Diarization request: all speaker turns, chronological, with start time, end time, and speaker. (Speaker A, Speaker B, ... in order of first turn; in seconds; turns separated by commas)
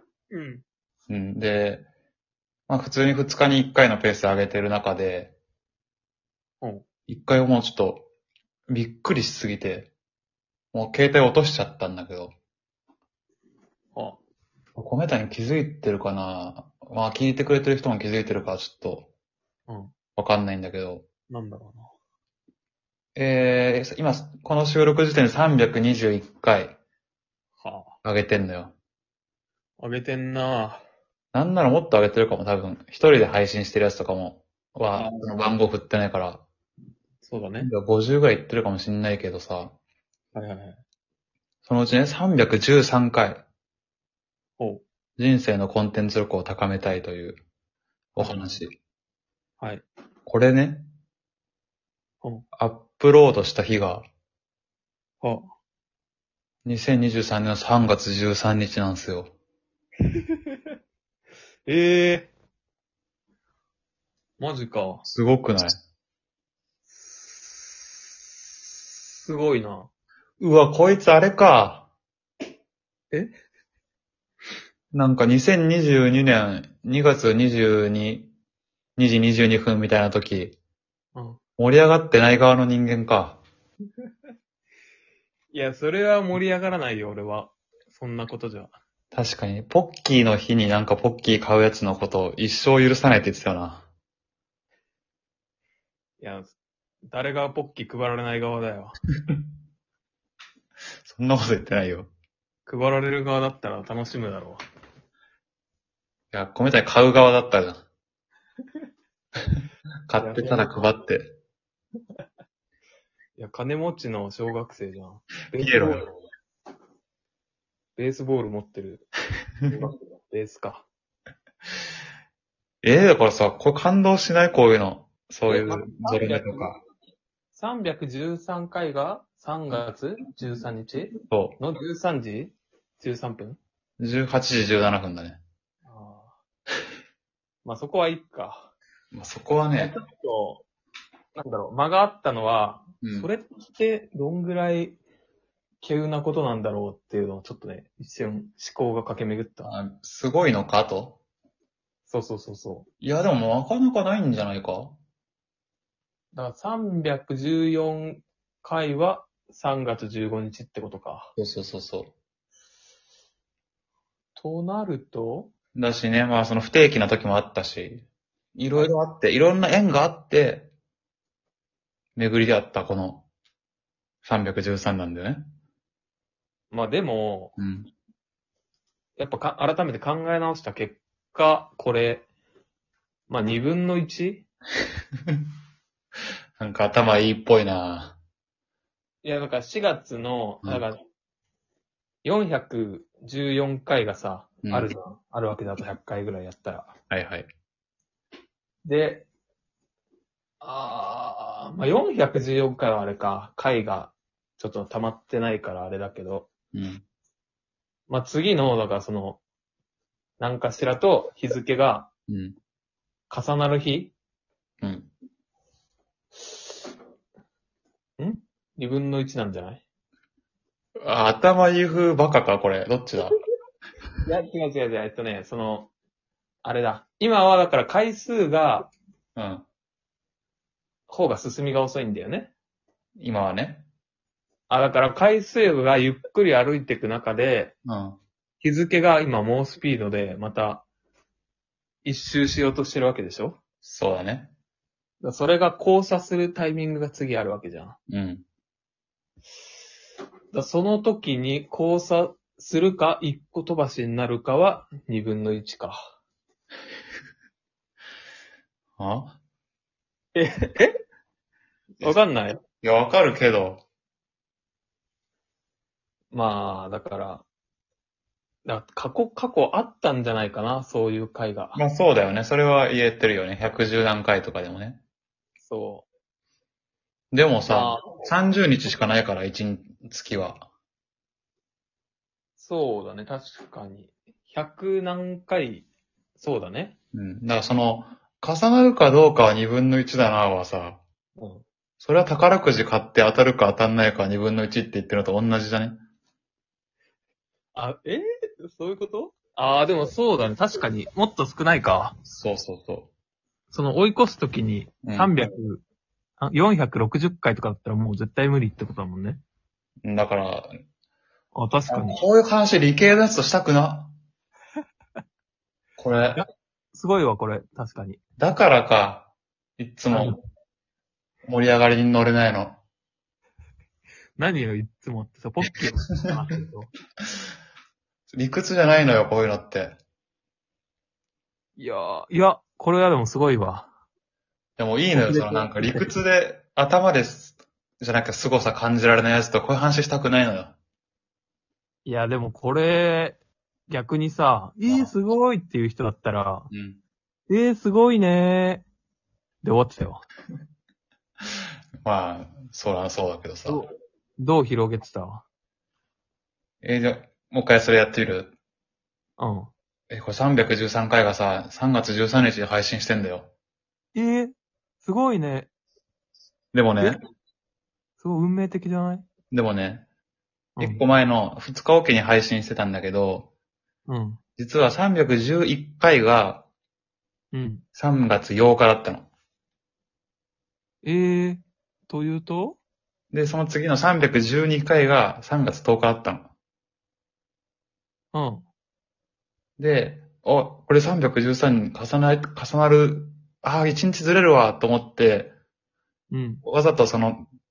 Speaker A: 0.3-0.6, Speaker B: 1.1-1.9, Speaker B: 2.7-5.3, Speaker B: 7.1-8.1, Speaker B: 8.7-9.9, Speaker B: 10.7-12.3, Speaker A: 13.9-14.2, Speaker B: 14.8-19.1, Speaker A: 19.7-19.9, Speaker B: 20.2-21.1, Speaker A: 21.3-21.9, Speaker B: 23.2-26.8, Speaker A: 27.6-28.0, Speaker B: 28.0-28.7, Speaker A: 29.8-30.8, Speaker B: 31.3-36.5, Speaker A: 34.9-35.3, Speaker A: 37.2-37.7, Speaker B: 37.6-39.8, Speaker A: 40.3-40.8, Speaker B: 41.6-43.4, Speaker A: 44.6-44.8, Speaker B: 45.2-47.4, Speaker B: 48.1-48.8, Speaker A: 48.2-48.6, Speaker A: 49.6-49.9, Speaker B: 50.3-50.9, Speaker B: 52.6-54.1, Speaker A: 55.2-55.5, Speaker B: 56.6-59.3, Speaker A: 60.1-60.6, Speaker A: 61.7-62.3, Speaker A: 64.4-65.0, Speaker B: 65.0-65.8, Speaker A: 66.9-68.0, Speaker A: 68.7-69.9, Speaker B: 70.4-71.9, Speaker B: 74.9-78.3, Speaker B: 79.0-80.6, Speaker B: 81.6-83.4, Speaker A: 85.5-88.8, Speaker B: 89.1-93.9, Speaker A: 96.2-96.6, Speaker A: 97.1-99.0, Speaker B: 101.1-102.1, Speaker A: 102.7-104.6, Speaker B: 106.3-107.8, Speaker B: 110.1-111.3, Speaker A: 110.2-110.9, Speaker A: 113.4-116.2, Speaker B: 115.6-116.1, Speaker A: 118.0-119.1, Speaker A: 119.7-120.8, Speaker B: 122.8-126.8, Speaker A: 125.5-126.8, Speaker A: 127.5-133.6, Speaker B: 131.3-131.6, Speaker B: 134.0-135.4, Speaker A: 135.8-136.4, Speaker A: 137.6-138.7, Speaker B: 139.1-139.9, Speaker A: 139.8-140.6, Speaker A: 141.4-145.0, Speaker B: 143.0-143.3, Speaker A: 145.8-149.7, Speaker B: 149.7-151.2, Speaker A: 152.1-152.9, Speaker B: 153.0-155.0, Speaker A: 156.3-161.3, Speaker B: 161.4-162.1, Speaker A: 164.4-165.5, Speaker B: 165.8-170.7, Speaker B: 172.2-173.3, Speaker B: 174.2-175.4, Speaker A: 176.7-177.6, Speaker B: 177.6-177.9, Speaker A: 179.2-182.3, Speaker A: 183.3-184.4, Speaker B: 186.6-188.2, Speaker A: 189.2-191.1, Speaker A: 192.2-196.9, Speaker B: 194.6-194.9, Speaker B: 197.1-197.5, Speaker A: 198.8-199.3, Speaker A: 200.6-206.5, Speaker B: 206.7-207.0, Speaker A: 208.1-209.4, Speaker A: 210.4-212.1, Speaker B: 212.3-212.6, Speaker A: 213.3-214.1, Speaker B: 214.8-215.1, Speaker A: 218.2-219.8, Speaker B: 221.0-223.4, Speaker A: 224.2-225.9, Speaker A: 226.6-228.9, Speaker B: 229.4-229.7, Speaker A: 231.1-232.5, Speaker B: 233.2-233.8, Speaker A: 234.7-237.7, Speaker B: 237.9-238.2, Speaker A: 238.6-240.8, Speaker A: 242.0-243.6, Speaker B: 243.8-244.5, Speaker A: 245.2-248.0, Speaker B: 248.1-248.4, Speaker A: 250.5-256.1, Speaker B: 259.0-259.4, Speaker A: 260.4-260.9, Speaker A: 262.0-262.6, Speaker B: 262.8-263.8, Speaker A: 266.3-267.4, Speaker A: 268.6-271.8, Speaker B: 271.8-275.0, Speaker A: 275.6-276.1, Speaker B: 277.3-280.7, Speaker A: 277.7-278.3, Speaker A: 282.6-287.0, Speaker B: 287.1-291.0, Speaker A: 291.4-291.6, Speaker B: 292.0-296.0, Speaker A: 297.8-302.2, Speaker B: 302.3-303.1, Speaker A: 303.7-305.8, Speaker B: 305.0-305.3, Speaker A: 306.4-309.4, Speaker B: 310.0-310.7, Speaker A: 311.5-312.2, Speaker B: 311.9-314.1, Speaker B: 316.0-316.4, Speaker A: 316.3-318.2, Speaker B: 318.4-320.4, Speaker A: 320.1-320.4, Speaker B: 321.5-322.8, Speaker A: 324.4-326.9, Speaker B: 328.3-329.9, Speaker A: 331.8-333.9, Speaker B: 334.8-340.8, Speaker A: 335.1-336.1, Speaker A: 342.1-346.7, Speaker B: 344.9-345.2, Speaker B: 346.7-347.0, Speaker A: 347.5-348.9, Speaker A: 349.6-350.2, Speaker B: 352.0-353.8, Speaker A: 353.7-355.4, Speaker B: 356.8-358.5, Speaker A: 359.4-359.7, Speaker B: 360.1-363.5, Speaker A: 364.1-365.7, Speaker B: 366.7-367.2, Speaker A: 368.2-369.3, Speaker B: 369.5-370.1, Speaker A: 370.8-371.1, Speaker B: 370.8-373.5, Speaker A: 374.1-374.4, Speaker B: 374.6-376.7, Speaker A: 377.5-377.9, Speaker B: 377.9-379.3, Speaker A: 381.0-382.8, Speaker B: 383.3-386.5, Speaker A: 388.3-388.7, Speaker B: 389.8-395.5, Speaker A: 396.3-396.6, Speaker B: 396.6-397.5